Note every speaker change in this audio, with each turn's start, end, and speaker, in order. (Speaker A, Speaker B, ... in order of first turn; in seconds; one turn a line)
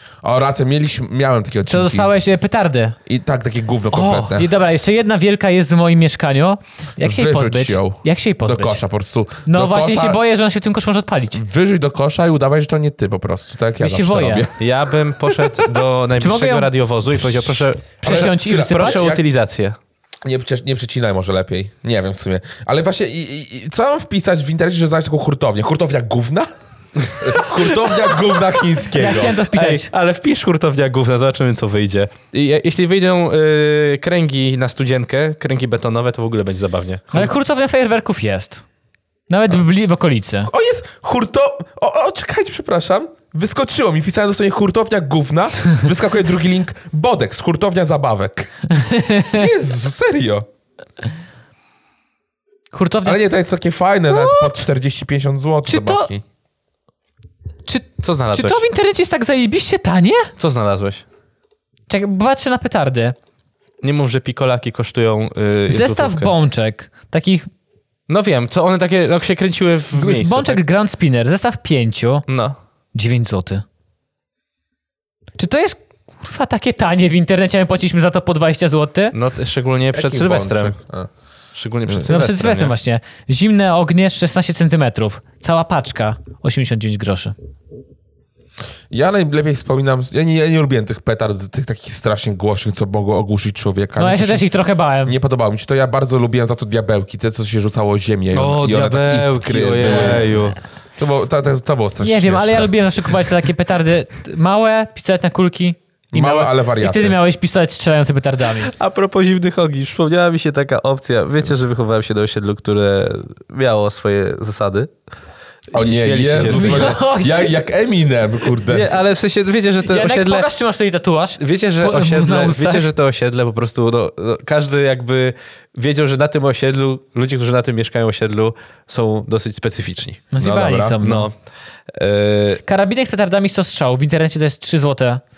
Speaker A: 0.2-2.1
Speaker B: 1.6-3.0
Speaker A: 3.1-4.5
Speaker C: 3.9-4.3
Speaker B: 4.3-8.8
Speaker A: 7.0-10.2
Speaker B: 9.5-11.4
Speaker A: 11.3-15.7
Speaker B: 13.8-14.5
Speaker C: 14.6-19.8
Speaker B: 16.2-16.7
Speaker B: 18.0-19.1
Speaker A: 18.0-19.2
Speaker A: 20.2-26.5
Speaker C: 27.0-37.3
Speaker A: 27.2-29.4
Speaker B: 28.9-29.9
Speaker B: 37.1-38.6
Speaker B: 39.3-40.5
Speaker A: 40.5-48.5
Speaker B: 48.7-49.5
Speaker A: 49.3-50.5
Speaker B: 52.7-53.2
Speaker A: 53.0-56.2
Speaker B: 54.1-54.5
Speaker B: 55.6-56.1
Speaker B: 57.7-60.3
Speaker C: 58.0-58.6
Speaker C: 60.4-61.0
Speaker B: 61.9-63.1
Speaker C: 63.8-66.3
Speaker B: 65.7-67.5
Speaker C: 68.1-70.6
Speaker B: 69.9-72.2
Speaker C: 72.3-72.6
Speaker B: 73.0-73.6
Speaker B: 75.4-79.1
Speaker C: 79.1-80.8
Speaker A: 79.9-81.1
Speaker C: 81.5-82.7
Speaker B: 82.1-87.3
Speaker A: 88.9-94.5
Speaker B: 94.0-95.2
Speaker A: 95.0-102.7
Speaker C: 98.3-100.6
Speaker B: 99.8-100.3
Speaker B: 102.0-108.7
Speaker A: 106.1-107.2
Speaker C: 108.7-114.9
Speaker A: 115.7-119.0
Speaker C: 115.7-117.0
Speaker B: 116.4-117.5
Speaker C: 118.6-120.5
Speaker B: 119.9-122.9
Speaker C: 121.4-130.3
Speaker B: 130.3-131.3
Speaker A: 130.4-131.0
Speaker C: 131.0-131.3
Speaker C: 131.9-132.6
Speaker B: 132.7-135.2